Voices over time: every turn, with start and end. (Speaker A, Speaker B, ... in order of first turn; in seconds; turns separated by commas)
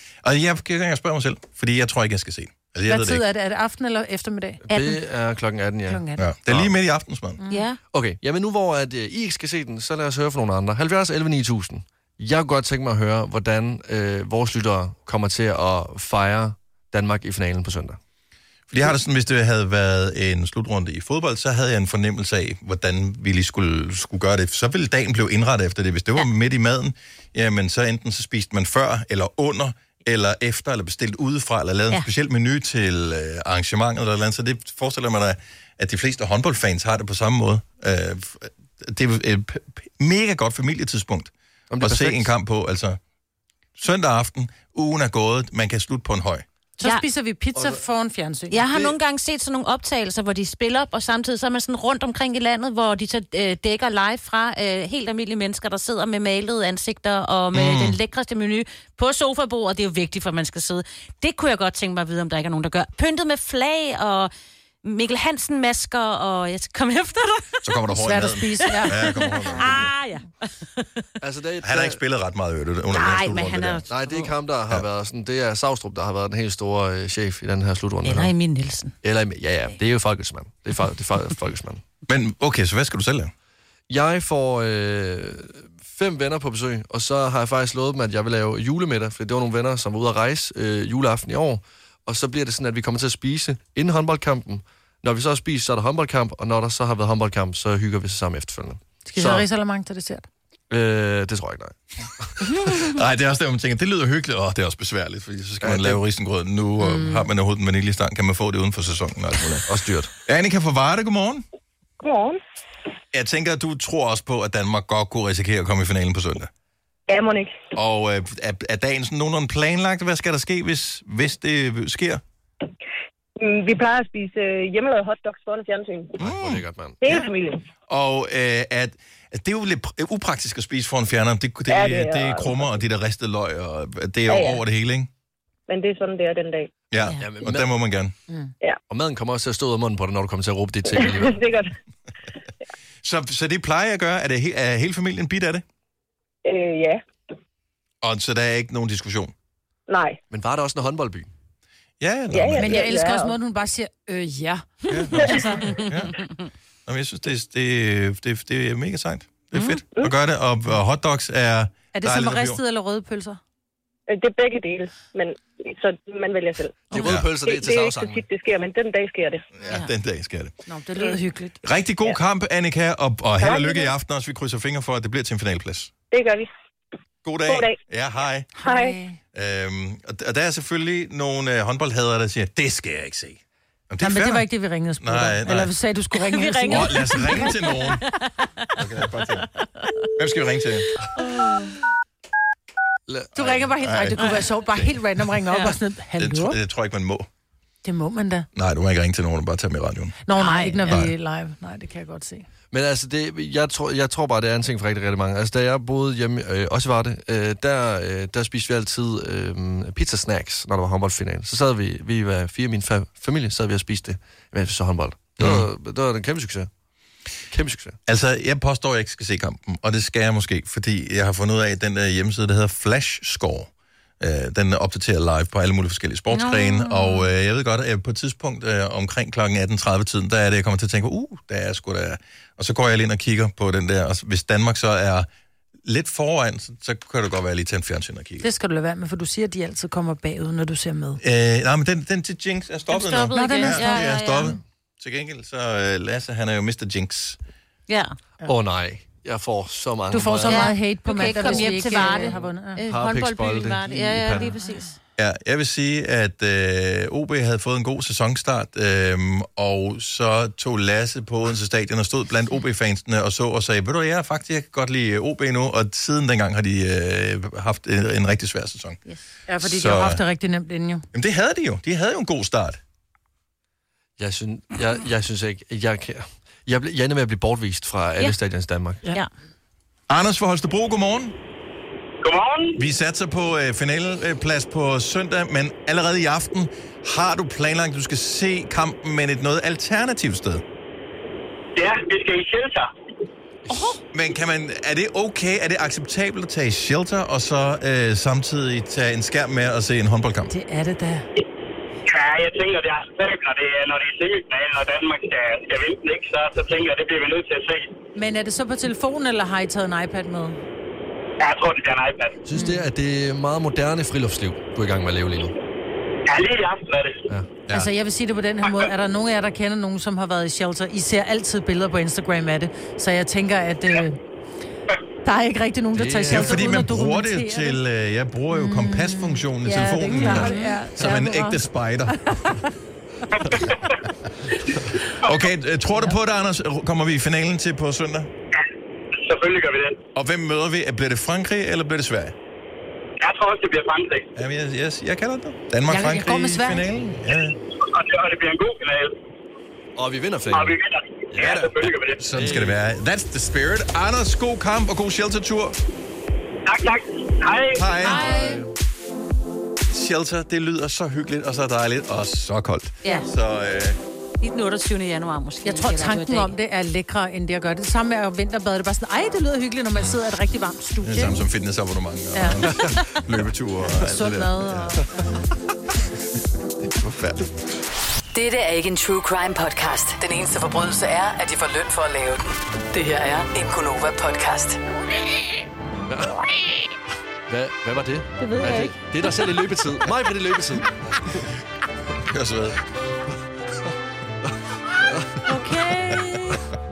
Speaker A: 0.2-3.2, Speaker B: 2.9-5.0, Speaker C: 4.6-6.7, Speaker B: 5.9-6.2, Speaker A: 6.2-7.4, Speaker B: 7.4-7.7, Speaker D: 7.5-7.8, Speaker C: 7.9-18.0, Speaker A: 18.7-43.0, Speaker C: 41.7-42.3, Speaker A: 43.8-46.4, Speaker B: 46.8-48.6, Speaker C: 47.5-47.8, Speaker D: 48.5-64.3, Speaker C: 48.7-49.0, Speaker A: 57.5-58.0, Speaker D: 64.8-67.7, Speaker A: 67.6-69.9, Speaker B: 67.9-69.0, Speaker D: 68.6-71.0, Speaker C: 71.2-72.0, Speaker A: 71.6-73.8, Speaker D: 72.9-74.3, Speaker C: 73.9-78.3, Speaker D: 78.0-78.9, Speaker C: 79.0-81.8, Speaker A: 82.1-83.3, Speaker C: 83.9-99.5, Speaker B: 99.0-100.2, Speaker C: 100.7-102.3, Speaker A: 102.4-109.7, Speaker C: 105.6-106.0, Speaker B: 106.8-107.2, Speaker C: 109.7-110.1, Speaker A: 110.2-111.4, Speaker E: 112.0-112.4, Speaker A: 113.1-116.5, Speaker E: 117.1-117.7, Speaker A: 117.7-122.2, Speaker E: 123.4-126.2, Speaker C: 126.2-127.3, Speaker A: 126.2-127.2, Speaker E: 127.0-127.6, Speaker A: 127.9-135.1, Speaker E: 131.7-132.7, Speaker E: 134.3-134.6, Speaker E: 135.7-136.7, Speaker A: 136.9-138.1, Speaker C: 137.2-137.7, Speaker C: 138.9-141.4, Speaker E: 140.9-141.7, Speaker A: 143.0-145.6, Speaker E: 146.4-147.0, Speaker A: 148.0-149.3, Speaker E: 149.9-150.2, Speaker C: 150.3-151.3, Speaker A: 152.0-152.9, Speaker E: 152.3-153.3, Speaker B: 152.6-155.9, Speaker A: 154.9-156.2, Speaker A: 156.8-162.6, Speaker D: 159.5-159.8, Speaker B: 161.9-163.4, Speaker E: 164.1-169.4, Speaker C: 166.9-168.2, Speaker A: 167.0-167.3, Speaker A: 169.6-170.5, Speaker B: 170.7-171.6, Speaker A: 171.6-175.9, Speaker E: 173.4-173.9, Speaker E: 176.1-176.5, Speaker A: 177.2-178.5, Speaker E: 177.4-177.8, Speaker B: 178.5-179.2, Speaker E: 178.6-179.0, Speaker A: 179.3-184.5, Speaker B: 184.0-187.5, Speaker A: 185.0-185.7, Speaker D: 186.2-188.5, Speaker A: 186.7-188.0, Speaker A: 188.8-189.5, Speaker A: 190.2-190.9, Speaker D: 191.2-191.7, Speaker C: 193.1-193.6, Speaker B: 193.3-196.6, Speaker A: 193.4-194.2, Speaker D: 194.2-194.4, Speaker D: 195.5-195.8, Speaker A: 196.2-197.3, Speaker B: 197.8-198.5, Speaker A: 198.5-200.1, Speaker B: 200.2-202.5, Speaker D: 200.4-201.0, Speaker A: 200.9-201.1, Speaker C: 202.7-216.7, Speaker A: 215.4-215.7, Speaker C: 217.5-218.0, Speaker A: 218.1-235.3, Speaker D: 226.3-227.3, Speaker A: 235.8-238.4, Speaker B: 238.4-241.2, Speaker A: 241.2-247.4, Speaker D: 242.9-244.6, Speaker B: 243.3-244.1, Speaker D: 247.9-248.1, Speaker C: 248.4-250.7, Speaker B: 250.1-252.8, Speaker D: 250.4-254.9, Speaker C: 251.5-252.3, Speaker C: 252.9-254.5, Speaker A: 255.2-269.0, Speaker B: 269.5-271.0, Speaker A: 269.6-270.2, Speaker A: 271.1-272.8, Speaker C: 274.2-279.0, Speaker A: 280.1-281.3, Speaker F: 282.2-282.8, Speaker A: 282.8-290.6, Speaker F: 291.8-292.9, Speaker A: 293.7-300.5, Speaker B: 293.7-294.0, Speaker B: 300.5-301.2, Speaker F: 302.1-307.9, Speaker B: 308.1-310.6, Speaker F: 311.4-312.4, Speaker C: 312.4-315.6, Speaker F: 316.2-317.2, Speaker B: 317.7-324.2, Speaker B: 325.2-327.8, Speaker C: 325.9-326.9, Speaker A: 326.3-332.5, Speaker B: 328.5-332.6, Speaker D: 330.2-330.8, Speaker A: 333.6-334.1, Speaker A: 335.2-338.3, Speaker F: 339.1-340.0, Speaker A: 340.1-342.3, Speaker F: 343.2-344.3, Speaker A: 344.3-347.6, Speaker B: 345.9-346.9, Speaker F: 347.7-349.1, Speaker C: 349.9-350.8, Speaker F: 350.5-352.2, Speaker C: 351.3-352.8, Speaker A: 352.1-355.8, Speaker F: 356.7-357.9, Speaker A: 357.7-358.3, Speaker B: 358.0-358.6, Speaker C: 358.1-358.7, Speaker A: 359.9-364.0, Speaker D: 363.0-363.3, Speaker D: 364.4-366.5, Speaker B: 365.6-371.4, Speaker A: 371.0-375.0, Speaker B: 372.3-372.6, Speaker B: 374.0-375.0, Speaker A: 376.8-377.6, Speaker G: 378.3-384.8, Speaker C: 386.1-386.4, Speaker C: 387.5-391.5, Speaker B: 388.4-388.9, Speaker A: 392.2-392.8, Speaker C: 395.0-395.4, Speaker D: 395.4-396.5